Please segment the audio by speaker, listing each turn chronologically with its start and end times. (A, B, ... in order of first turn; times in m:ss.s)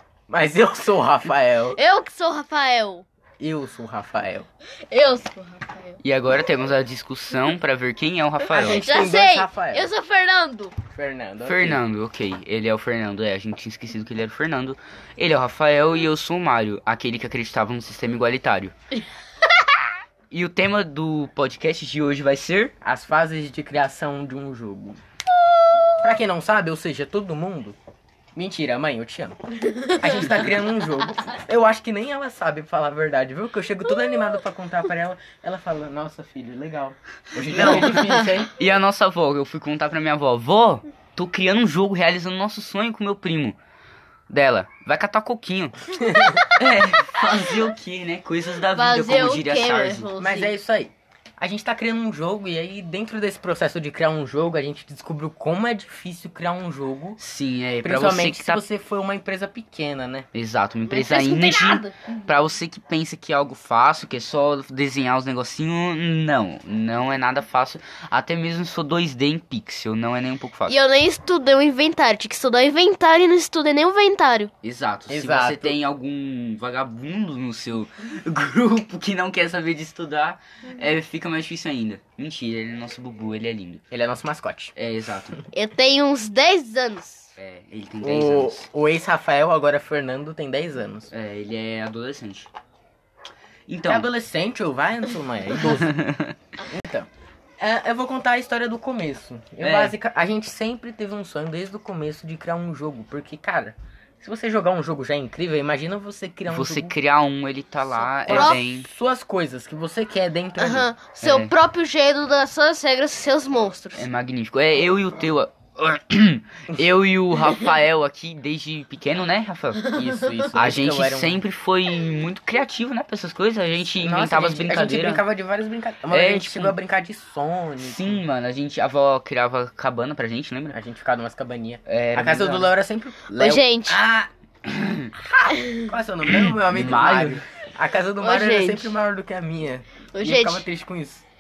0:00.3-0:01.8 A
0:01.8-0:03.0 B
0:03.4-0:04.5 A
0:04.9-0:06.0 B
0:06.0-0:08.8 C
0:08.5-0:09.9 A
0:08.7-0:10.8 B
0:10.9-0:11.8 A
0:11.4-0:18.7 C
0:20.3-0:22.7 C
0:22.8-0:25.0 A
0:26.0-0:27.8 A
0:28.4-0:38.5 A
0:37.4-0:43.6 C
0:44.3-0:45.8 C
0:46.0-0:46.4 A
0:46.6-0:50.1 C
0:48.7-0:50.5 B
0:50.2-0:57.2 A
0:57.2-0:58.6 C
0:57.8-1:00.3 A
1:00.3-1:10.8 C
1:00.9-1:02.4 B
1:10.7-1:14.5 B
1:14.6-1:23.8 C
1:15.1-1:15.8 A
1:23.9-1:24.7 A
1:24.8-1:25.4 C
1:25.5-1:27.4 B
1:27.4-1:28.7 C
1:28.0-1:31.1 A
1:31.1-1:32.5 C
1:33.7-1:34.1 C
1:33.9-1:36.0 A
1:35.6-1:36.4 C
1:36.6-1:47.0 A
1:39.6-1:40.0 C
1:46.5-1:48.9 C
1:48.1-1:48.6 B
1:48.2-1:50.9 A
1:50.6-1:54.1 B
1:51.2-1:51.5 C
1:53.9-1:59.9 C
1:59.9-2:01.4 A
2:00.5-2:05.2 C
2:04.0-2:08.2 A
2:06.1-2:06.8 C
2:07.8-2:10.8 C
2:10.7-2:14.3 A
2:11.9-2:12.8 C
2:13.3-2:14.0 B
2:14.6-2:15.2 C
2:15.5-2:15.9 B
2:15.7-2:21.3 A
2:16.3-2:17.4 C
2:18.2-2:19.0 B
2:20.1-2:20.7 B